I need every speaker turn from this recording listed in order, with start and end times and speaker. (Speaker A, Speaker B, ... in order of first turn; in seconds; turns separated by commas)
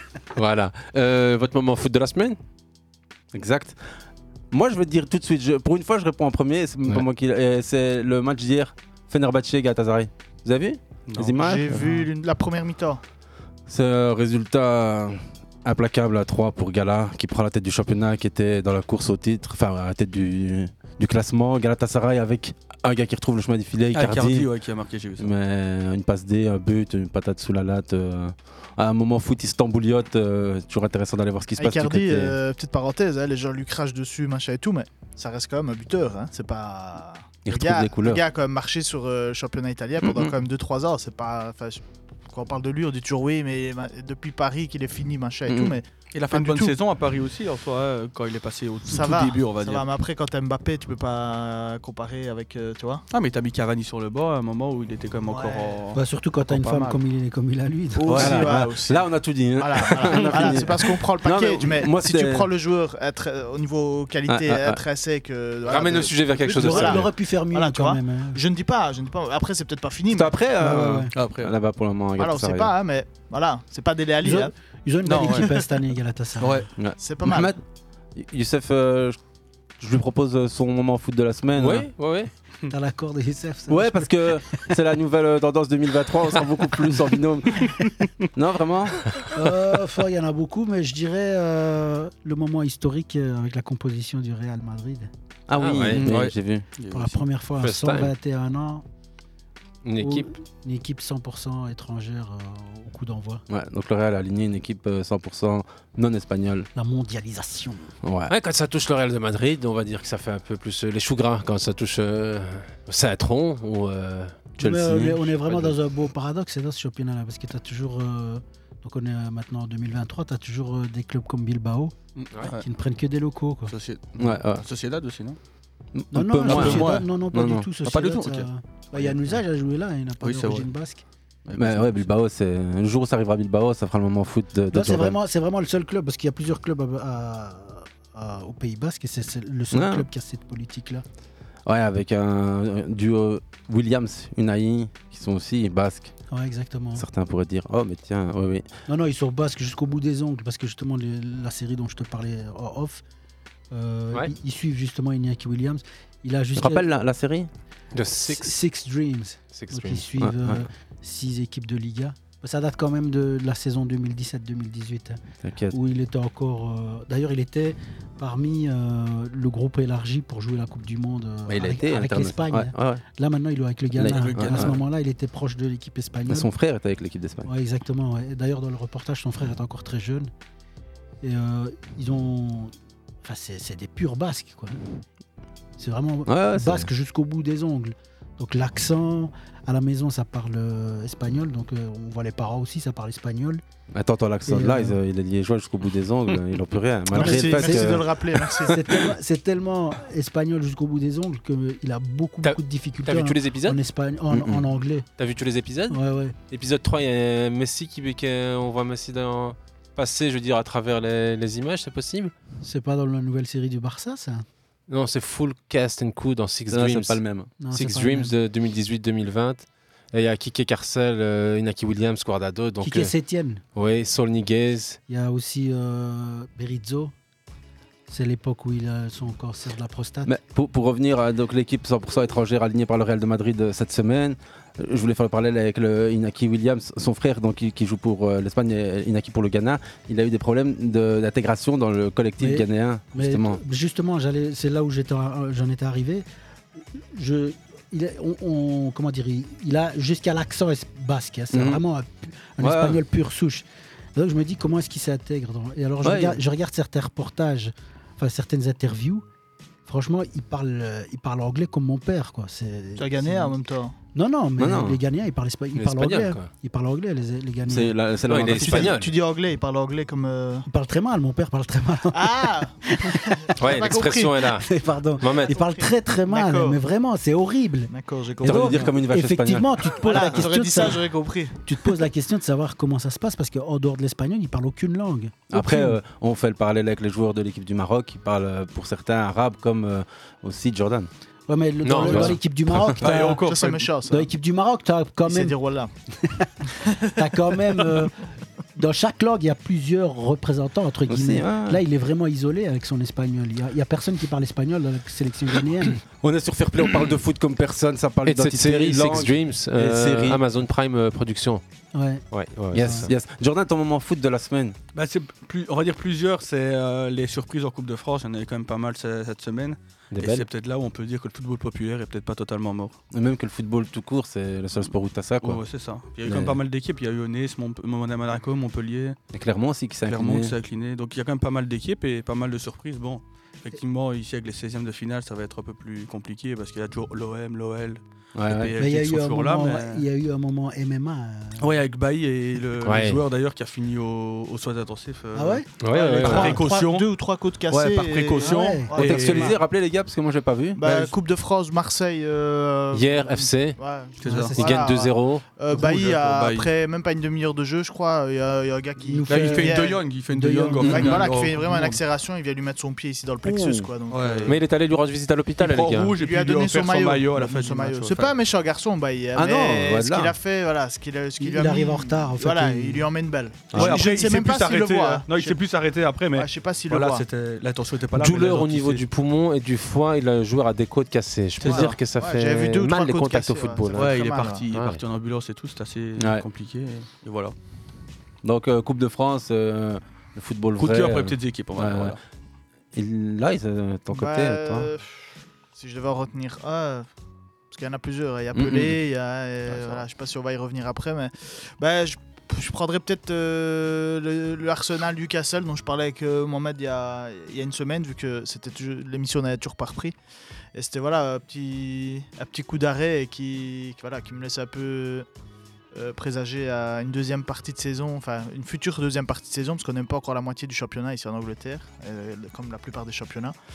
Speaker A: 0.3-2.4, Speaker B: 3.3-3.8, Speaker B: 4.5-11.9, Speaker C: 11.1-11.5, Speaker D: 11.4-13.0, Speaker B: 13.7-24.5, Speaker C: 23.9-25.3, Speaker B: 25.2-32.4, Speaker D: 31.6-46.8, Speaker B: 37.5-38.2, Speaker B: 40.0-40.3, Speaker B: 45.5-45.8, Speaker C: 46.1-49.9, Speaker D: 48.9-53.0, Speaker C: 53.1-57.0, Speaker D: 55.3-55.8, Speaker E: 55.9-58.4, Speaker D: 58.0-70.3, Speaker C: 58.1-58.4, Speaker B: 58.2-62.5, Speaker B: 64.3-64.8, Speaker A: 65.7-67.0, Speaker E: 66.5-68.4, Speaker B: 70.1-72.7, Speaker E: 70.6-71.1, Speaker C: 71.2-71.5, Speaker D: 72.2-74.5, Speaker E: 74.2-76.7, Speaker C: 75.0-75.5, Speaker C: 76.4-76.7, Speaker B: 76.8-77.6, Speaker D: 77.0-77.5, Speaker B: 78.2-79.2, Speaker B: 79.8-81.9, Speaker A: 81.6-82.3, Speaker E: 82.7-84.2, Speaker B: 83.7-87.7, Speaker B: 88.3-89.0, Speaker E: 89.3-95.1, Speaker B: 95.5-96.7, Speaker A: 95.6-96.1, Speaker C: 95.9-97.2, Speaker E: 96.9-98.8, Speaker A: 97.6-98.1, Speaker A: 99.8-100.3, Speaker E: 100.0-103.4, Speaker B: 103.5-106.7, Speaker E: 106.8-107.9, Speaker B: 108.0-108.3, Speaker A: 108.3-114.5, Speaker B: 114.6-115.3, Speaker E: 114.6-121.9, Speaker C: 122.2-122.6, Speaker E: 122.6-123.7, Speaker C: 123.7-125.4, Speaker B: 124.2-124.6, Speaker B: 126.0-127.7, Speaker E: 126.1-131.0, Speaker C: 126.5-127.1, Speaker C: 127.8-129.1, Speaker C: 130.2-130.7, Speaker C: 131.5-132.0, Speaker B: 131.6-135.2, Speaker E: 134.7-141.0, Speaker B: 139.7-140.1, Speaker B: 141.7-146.1, Speaker E: 146.3-147.0, Speaker B: 147.0-148.7, Speaker E: 148.9-153.0, Speaker E: 153.7-156.9, Speaker B: 156.6-157.5, Speaker A: 157.9-158.5, Speaker E: 158.2-165.2, Speaker A: 159.5-160.1, Speaker B: 160.2-160.7, Speaker B: 165.4-165.8, Speaker E: 165.7-176.5, Speaker B: 171.5-173.0, Speaker B: 174.0-174.8, Speaker C: 174.2-174.8, Speaker B: 176.3-177.5, Speaker E: 177.5-180.3, Speaker E: 181.2-182.7, Speaker E: 183.2-184.7, Speaker E: 185.8-193.6, Speaker B: 186.3-186.9, Speaker B: 193.9-198.1, Speaker E: 194.5-195.0, Speaker D: 197.1-199.0, Speaker E: 197.1-198.0, Speaker E: 198.7-205.1, Speaker A: 202.4-203.8, Speaker B: 204.3-204.6, Speaker A: 205.2-212.3, Speaker E: 205.9-206.3, Speaker E: 212.6-214.4, Speaker A: 214.9-223.1, Speaker B: 216.7-217.5, Speaker E: 217.6-218.3, Speaker E: 222.8-223.6, Speaker A: 223.8-225.0, Speaker E: 225.1-227.1, Speaker E: 228.1-230.3, Speaker B: 230.2-243.6, Speaker E: 242.4-246.3, Speaker E: 246.9-259.2, Speaker B: 251.5-251.8, Speaker B: 252.6-253.0, Speaker B: 256.0-256.4, Speaker E: 259.9-263.5, Speaker D: 263.0-263.9, Speaker E: 264.1-267.9, Speaker B: 264.6-265.0, Speaker A: 265.8-266.5, Speaker B: 267.7-269.0, Speaker A: 268.3-269.1, Speaker D: 268.6-270.7, Speaker E: 270.7-273.3, Speaker D: 272.1-274.4, Speaker A: 273.6-274.7, Speaker E: 274.6-277.9, Speaker A: 275.2-275.5, Speaker D: 275.2-276.8, Speaker D: 277.9-278.9, Speaker B: 278.4-280.2, Speaker E: 278.4-281.0, Speaker D: 280.0-281.9, Speaker E: 281.6-286.0, Speaker B: 285.5-291.1, Speaker E: 291.5-293.4, Speaker A: 291.8-292.4, Speaker B: 292.0-292.9, Speaker C: 293.0-293.9, Speaker D: 293.4-294.3, Speaker E: 294.1-295.6, Speaker D: 295.3-295.9, Speaker D: 296.8-297.1, Speaker E: 297.2-298.1, Speaker E: 298.8-306.0, Speaker B: 301.1-301.8, Speaker B: 306.2-310.4, Speaker A: 308.3-311.6, Speaker E: 311.9-313.1, Speaker A: 312.3-313.1, Speaker B: 312.7-314.8, Speaker C: 314.9-322.9, Speaker B: 323.1-325.6, Speaker C: 325.4-329.2, Speaker B: 326.3-326.6, Speaker B: 329.3-330.5, Speaker C: 330.1-340.0, Speaker B: 338.4-338.7, Speaker E: 338.8-341.6, Speaker C: 341.6-347.1, Speaker A: 342.8-343.2, Speaker E: 345.4-345.7, Speaker A: 345.8-346.6, Speaker D: 346.2-349.5, Speaker E: 346.2-346.7, Speaker C: 347.7-349.6, Speaker E: 348.4-348.9, Speaker B: 349.0-350.8, Speaker D: 350.8-360.0, Speaker C: 350.8-351.1, Speaker A: 352.9-353.8, Speaker C: 354.2-354.6, Speaker E: 354.3-354.8, Speaker A: 354.6-355.4, Speaker C: 355.7-356.7, Speaker E: 359.1-361.2, Speaker C: 359.3-362.0, Speaker D: 360.8-364.6, Speaker B: 363.4-363.9, Speaker C: 364.1-364.6, Speaker A: 364.5-366.1, Speaker C: 365.6-368.4, Speaker D: 366.2-375.6, Speaker B: 369.4-370.4, Speaker E: 371.4-373.1, Speaker B: 373.7-374.0, Speaker C: 373.7-379.0, Speaker D: 376.4-377.2, Speaker A: 378.2-384.2, Speaker C: 381.6-382.0, Speaker D: 381.6-384.6, Speaker C: 383.9-387.5, Speaker A: 384.7-385.0, Speaker B: 386.2-386.4, Speaker B: 388.4-392.2, Speaker C: 390.8-392.2, Speaker B: 392.9-394.9, Speaker D: 394.1-397.1, Speaker D: 397.7-410.1, Speaker B: 398.5-399.0, Speaker C: 399.7-400.1, Speaker D: 410.8-415.3, Speaker D: 415.9-423.6